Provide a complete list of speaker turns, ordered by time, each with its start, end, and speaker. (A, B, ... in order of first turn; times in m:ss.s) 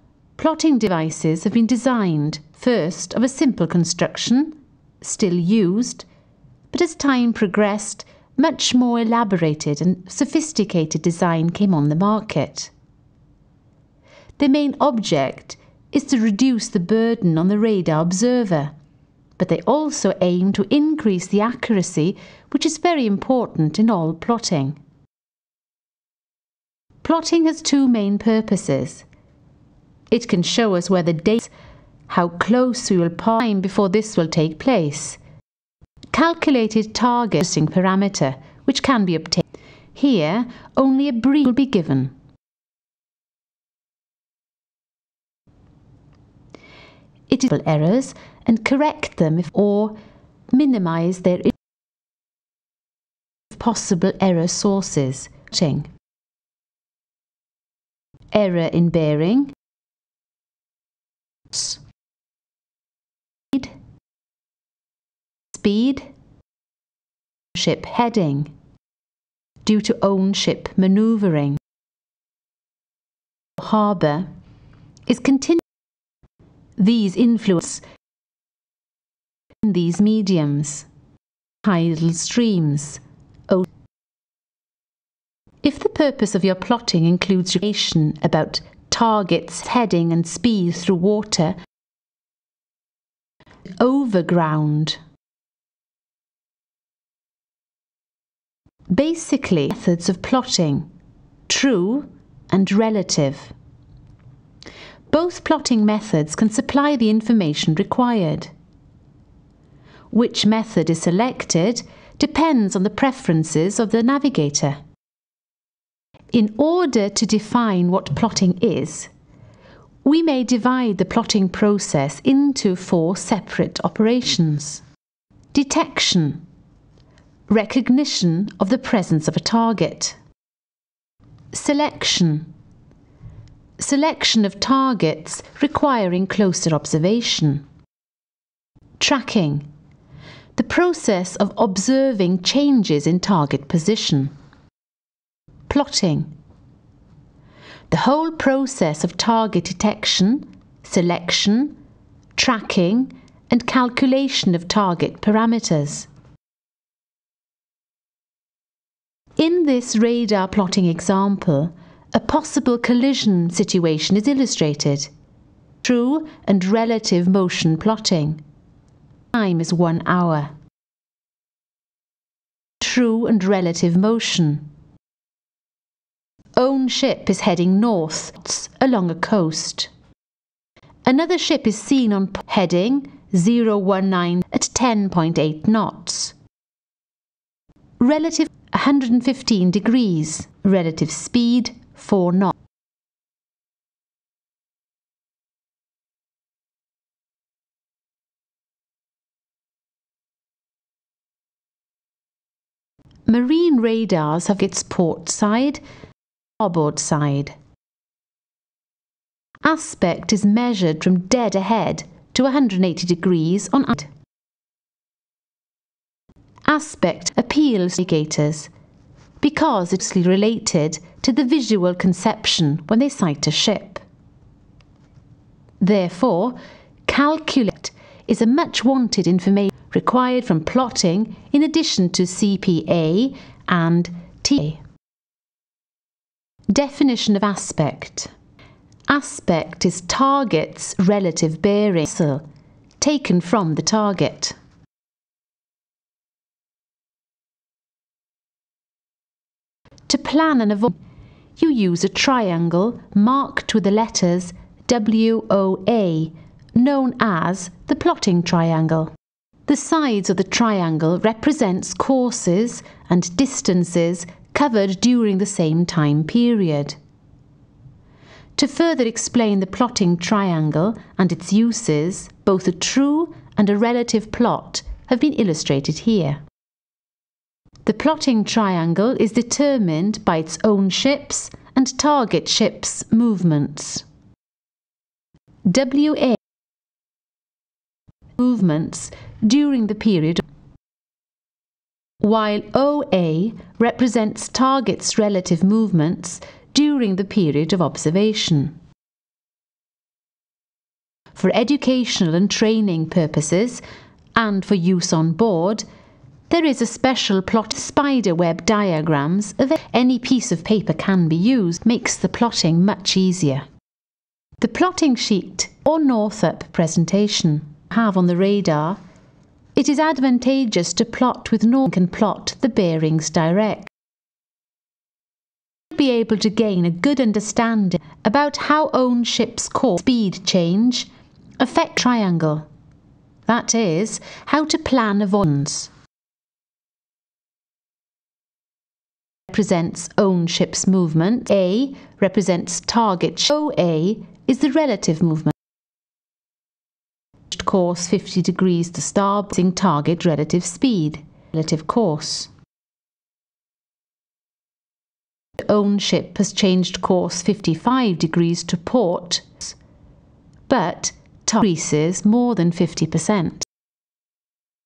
0:00.4-0:06.0 A
0:06.7-0:12.7 A
0:14.4-0:18.7 A
0:19.4-0:24.8 A
0:27.0-0:29.0 A
0:30.1-0:31.5 A
0:32.1-0:35.2 A
0:36.1-0:39.4 A
0:39.9-0:42.1 A
0:47.3-0:50.0 A
0:50.5-0:51.5 A
0:53.5-0:55.9 A
0:58.3-0:59.5 A
1:01.5-1:01.8 A
1:05.5-1:06.1 A
1:07.5-1:08.5 A
1:09.6-1:11.6 A
1:13.6-1:14.3 A
1:15.1-1:15.6 A
1:16.8-1:17.8 A
1:19.6-1:20.9 A
1:21.6-1:23.6 A
1:25.6-1:31.6 A
1:33.8-1:35.0 A
1:38.9-1:40.9 A
1:41.5-1:43.5 A
1:45.1-1:48.5 A
1:50.1-1:54.8 A
1:56.3-1:59.1 A
2:00.0-2:04.8 A
2:05.5-2:06.4 A
2:07.5-2:10.2 A
2:11.5-2:12.5 A
2:13.8-2:17.6 A
2:19.0-2:19.7 A
2:20.6-2:24.3 A
2:25.7-2:26.3 A
2:27.9-2:31.8 A
2:32.4-2:36.1 A
2:39.4-2:45.1 A
2:45.8-2:48.4 A
2:49.3-2:50.5 A
2:52.8-2:54.6 A
2:56.6-2:59.9 A
3:01.0-3:06.3 A
3:08.0-3:12.5 A
3:23.3-3:25.8 A
3:26.6-3:27.6 A
3:29.6-3:34.1 A
3:36.7-3:38.7 A
3:39.4-3:44.0 A
3:45.8-3:54.8 A
3:56.7-3:58.3 A
3:59.1-4:02.4 A
4:03.0-4:04.5 A
4:10.1-4:10.9 A
4:11.6-4:19.1 A
4:19.7-4:27.0 A
4:28.6-4:36.4 A
4:37.8-4:44.0 A
4:45.7-4:46.4 A
4:48.4-4:50.4 A
4:52.2-4:58.8 A
5:01.3-5:03.8 A
5:04.3-5:05.8 A
5:06.5-5:13.6 A
5:14.6-5:19.0 A
5:19.8-5:23.9 A
5:25.9-5:31.1 A
5:31.6-5:32.6 A
5:33.4-5:35.9 A
5:39.5-5:45.5 A
5:47.5-5:52.5 A
5:55.6-5:59.8 A
6:00.7-6:03.7 A